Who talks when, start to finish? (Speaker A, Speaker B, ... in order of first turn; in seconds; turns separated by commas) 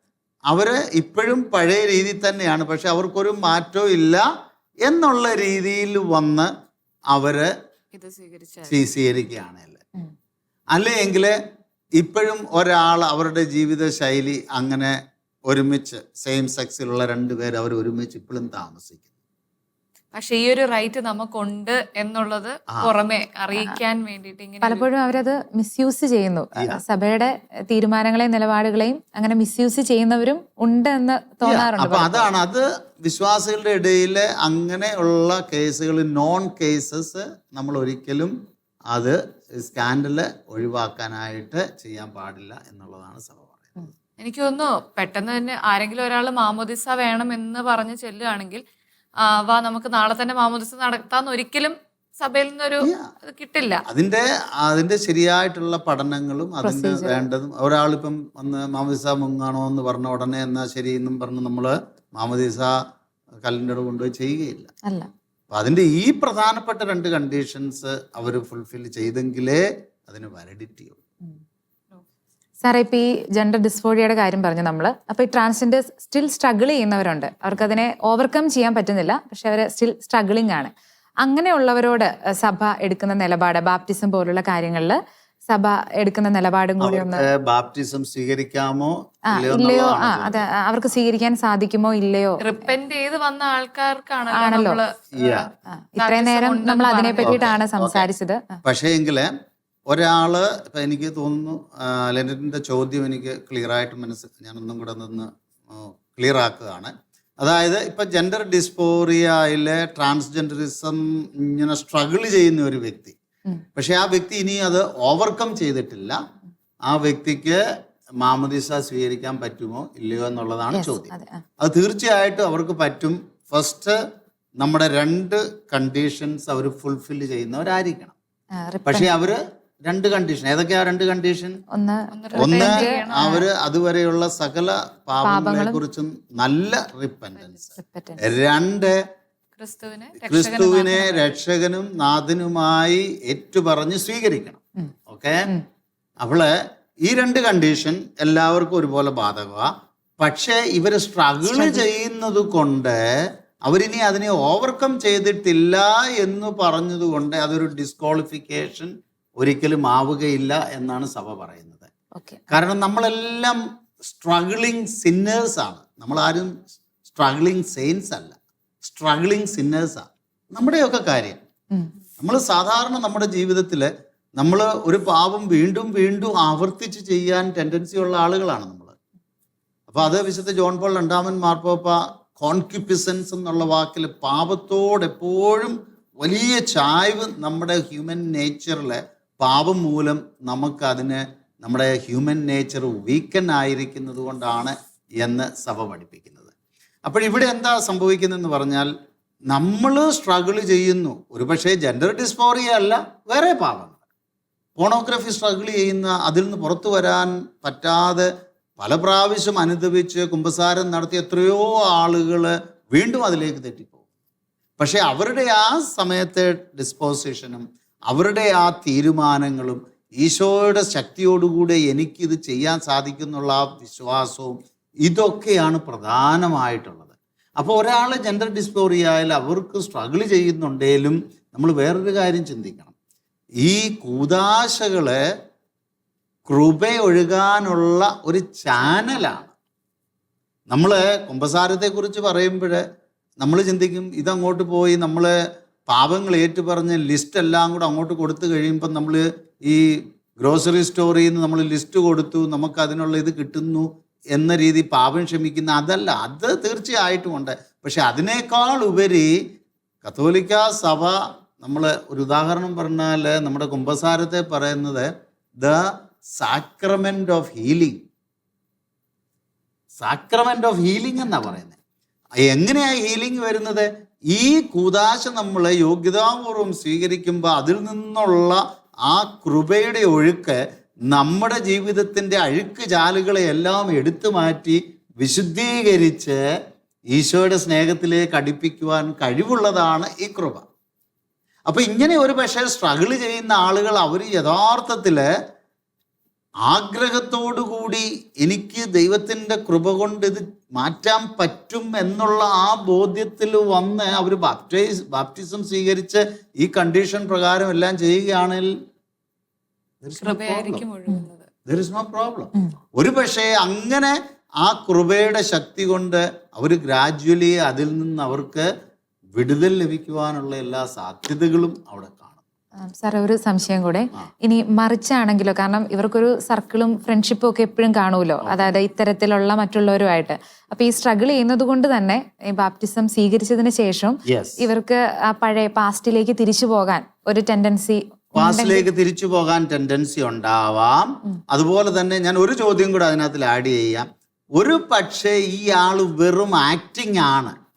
Speaker A: 0.5-4.2, Speaker A: 4.8-6.5, Speaker A: 7.1-7.5, Speaker B: 7.9-8.8, Speaker A: 8.7-9.8, Speaker A: 10.7-11.4, Speaker A: 12.0-14.9, Speaker A: 15.5-19.1, Speaker B: 20.1-24.9, Speaker C: 24.6-32.3, Speaker A: 31.4-38.4, Speaker A: 38.9-43.9, Speaker B: 44.2-48.6, Speaker B: 49.2-53.8, Speaker A: 52.8-53.1, Speaker A: 53.9-62.8, Speaker C: 56.6-57.2, Speaker A: 63.4-64.7, Speaker A: 65.5-71.0, Speaker C: 72.6-80.7, Speaker C: 81.2-85.0, Speaker C: 85.5-87.2, Speaker A: 86.8-90.4, Speaker C: 89.3-92.4, Speaker B: 92.4-95.4, Speaker C: 94.3-94.8, Speaker A: 95.1-95.5, Speaker C: 95.7-98.6, Speaker B: 96.0-97.5, Speaker A: 97.2-98.1, Speaker A: 98.6-99.3, Speaker A: 99.9-113.2, Speaker A: 113.8-116.2, Speaker A: 116.9-117.6, Speaker A: 118.2-124.0, Speaker C: 120.7-121.4, Speaker A: 124.6-128.1, Speaker C: 128.6-129.1, Speaker A: 128.9-131.6, Speaker C: 131.7-133.4, Speaker B: 132.1-133.4, Speaker A: 132.4-139.0, Speaker C: 135.2-135.8, Speaker C: 137.8-138.2, Speaker B: 139.6-141.3, Speaker A: 140.2-145.5, Speaker A: 146.2-146.5, Speaker A: 147.0-149.7, Speaker A: 150.2-153.0, Speaker C: 151.5-151.8, Speaker A: 153.6-161.9, Speaker C: 162.1-162.4, Speaker A: 162.5-171.4, Speaker A: 172.2-178.9, Speaker A: 179.9-196.5, Speaker A: 197.1-198.9, Speaker A: 199.5-204.0, Speaker A: 204.8-214.0, Speaker A: 214.8-232.9, Speaker A: 233.6-235.2, Speaker A: 236.5-239.5, Speaker A: 240.7-242.8, Speaker A: 243.4-245.3, Speaker A: 245.9-259.3, Speaker A: 260.0-265.1, Speaker A: 265.6-268.1, Speaker A: 270.0-271.8, Speaker A: 272.4-286.4, Speaker A: 287.1-290.7, Speaker A: 291.7-295.3, Speaker A: 296.6-308.7, Speaker A: 310.0-310.8, Speaker B: 310.2-311.5, Speaker A: 311.7-318.7, Speaker A: 319.4-322.4, Speaker C: 322.9-338.9, Speaker A: 328.4-328.7, Speaker A: 334.3-334.6, Speaker A: 338.4-347.6